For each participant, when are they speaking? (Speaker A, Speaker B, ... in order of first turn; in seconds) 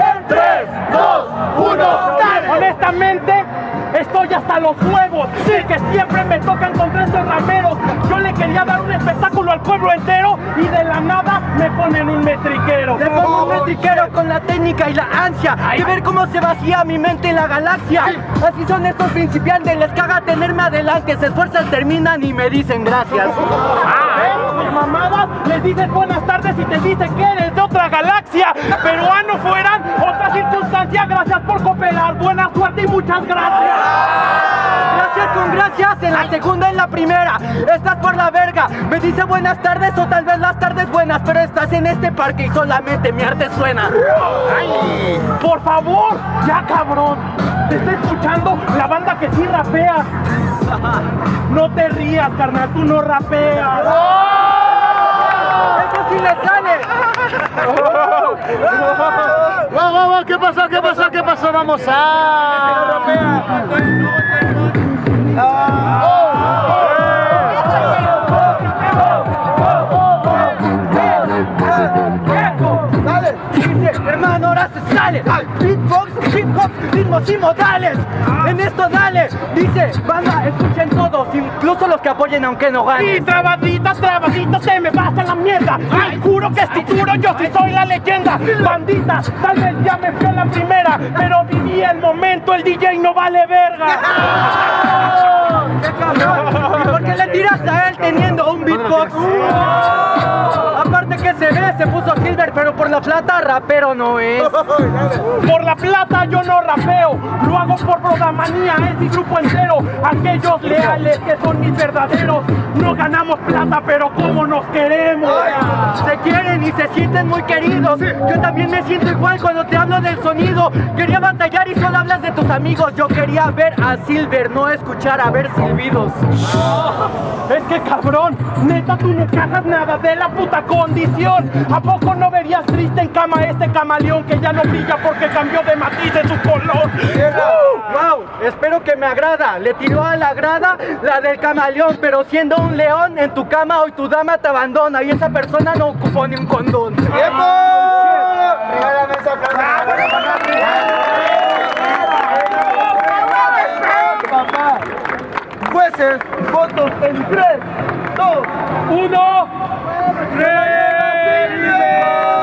Speaker A: 0.3-0.6, 1.6-2.4, 13.0-23.6, 34.7-44.1, 55.5-57.0, 70.8-71.5, 72.1-83.3, 95.5-104.6, 110.6-111.0, 115.8-126.3, 137.6-147.4
Speaker B: 1.5-13.2, 23.9-34.0, 45.3-50.1, 51.5-54.2, 83.0-94.4, 105.3-115.9, 127.5-137.8, 158.9-159.6, 160.2-161.8
Speaker C: 59.7-62.5, 147.3-150.0, 153.8-154.8, 155.7-157.6, 158.2-158.4